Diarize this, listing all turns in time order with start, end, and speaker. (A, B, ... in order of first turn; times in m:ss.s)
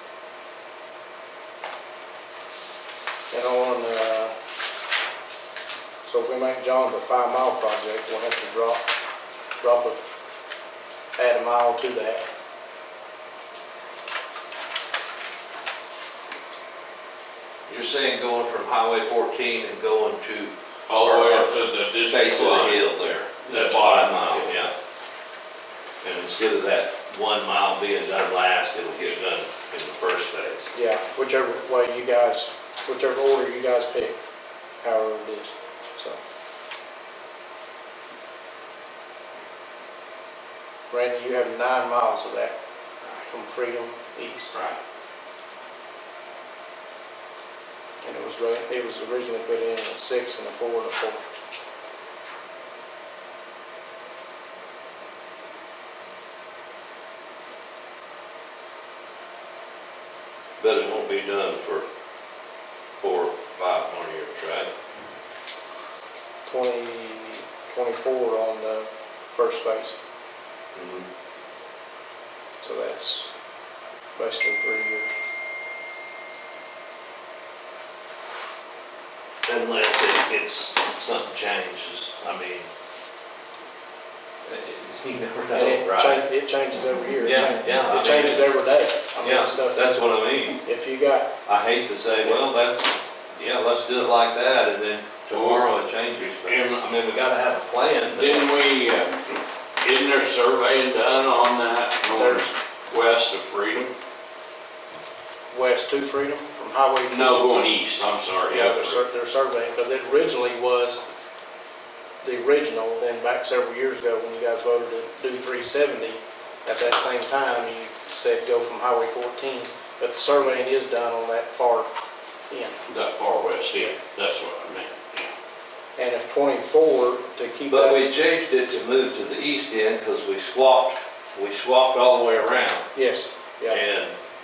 0:03.3-0:04.3 A
0:06.0-0:08.8 A
0:09.6-0:10.0 A
0:11.2-0:12.2 A
0:17.7-0:24.7 B
0:20.9-0:22.8 C
0:23.4-0:24.6 C
0:26.0-0:30.7 B
0:30.7-0:34.2 A
0:34.8-0:36.2 A
0:40.9-0:42.6 A
0:43.3-0:44.6 A
0:48.0-0:51.2 A
1:00.6-1:01.9 B
1:03.0-1:04.7 B
1:06.5-1:10.0 A
1:10.8-1:11.0 B
1:12.6-1:13.3 A
1:14.2-1:15.2 A
1:19.5-1:22.7 B
1:24.4-1:26.3 B
1:25.5-1:29.9 A
1:27.2-1:28.5 B
1:29.2-1:30.6 B
1:30.6-1:31.3 A
1:31.4-1:38.4 B
1:35.3-1:35.7 C
1:36.4-1:36.8 C
1:38.1-1:43.9 C
1:42.2-1:42.5 A
1:45.5-1:47.6 A
1:47.1-1:49.0 C
1:48.5-1:51.1 A
1:52.2-2:01.9 A
2:02.5-2:02.8 A
2:02.9-2:05.3 C
2:06.0-2:08.0 A
2:07.7-2:12.9 B
2:13.0-2:13.8 A
2:13.7-2:14.1 B